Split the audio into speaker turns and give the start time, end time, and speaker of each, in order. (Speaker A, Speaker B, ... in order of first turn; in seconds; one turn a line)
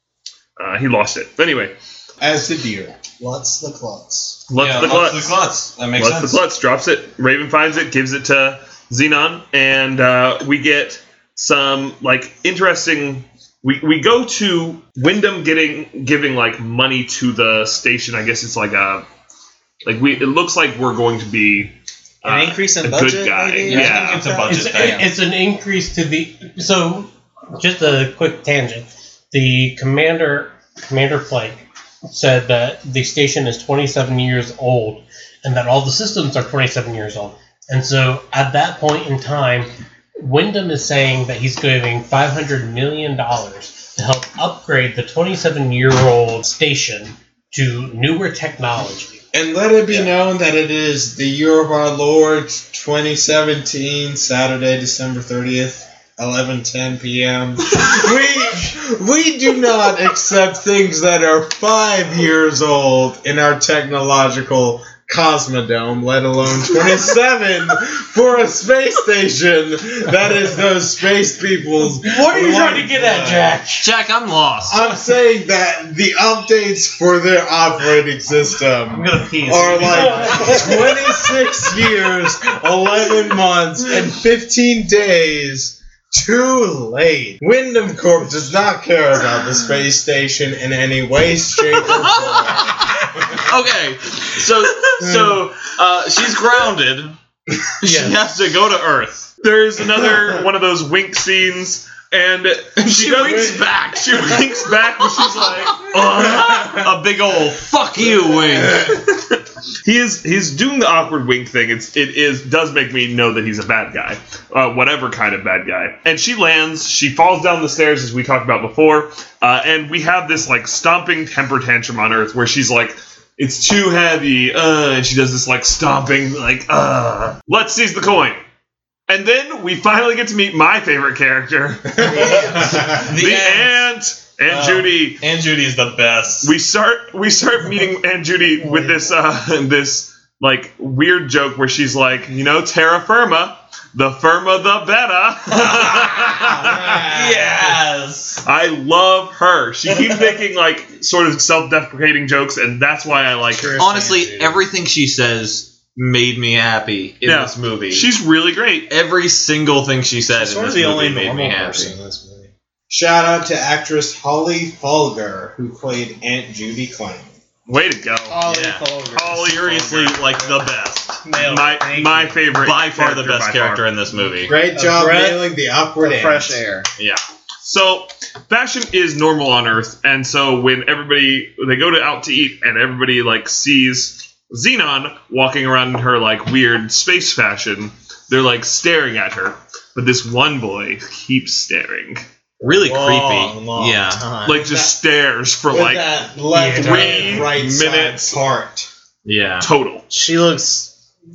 Speaker A: 0.6-1.7
Speaker B: 2.2-3.0
Speaker C: 3.2-4.4
Speaker A: 4.5-5.4
Speaker D: 4.6-6.4
Speaker A: 6.0-19.1
Speaker A: 19.8-24.3
Speaker C: 22.2-24.8
Speaker D: 23.7-25.1
Speaker E: 24.4-49.2
Speaker B: 49.3-73.6
Speaker E: 72.0-73.9
Speaker D: 73.8-74.8
Speaker B: 74.7-93.4
Speaker C: 78.9-80.9
Speaker E: 79.9-80.9
Speaker D: 91.9-97.1
Speaker B: 95.0-95.4
Speaker D: 97.8-99.3
Speaker E: 97.8-98.2
Speaker A: 99.4-107.1
Speaker D: 102.8-109.0
Speaker B: 103.3-103.6
Speaker A: 108.6-128.4
Speaker A: 129.1-135.2
Speaker C: 132.0-133.0
Speaker B: 132.0-132.9
Speaker D: 132.2-133.8
Speaker D: 134.5-136.5
Speaker A: 136.4-146.9
Speaker D: 145.6-146.4
Speaker B: 146.4-147.7
Speaker D: 147.0-148.4
Speaker A: 148.4-153.8
Speaker C: 153.5-154.6
Speaker D: 153.8-158.1
Speaker A: 157.2-158.9
Speaker D: 158.9-161.9
Speaker C: 160.3-162.5
Speaker B: 162.9-167.3
Speaker A: 167.7-168.4
Speaker C: 168.3-169.4
Speaker D: 168.4-171.2
Speaker A: 169.1-170.2
Speaker C: 171.2-172.4
Speaker A: 171.4-173.8
Speaker D: 172.6-174.5
Speaker B: 174.4-176.6
Speaker C: 174.6-176.9
Speaker D: 177.0-177.2
Speaker A: 177.6-192.2
Speaker D: 192.6-194.3
Speaker C: 192.6-194.8
Speaker A: 194.4-198.4
Speaker B: 194.6-194.9
Speaker B: 195.7-198.9
Speaker E: 196.5-197.4
Speaker D: 199.2-199.7
Speaker A: 199.6-200.0
Speaker C: 200.1-200.9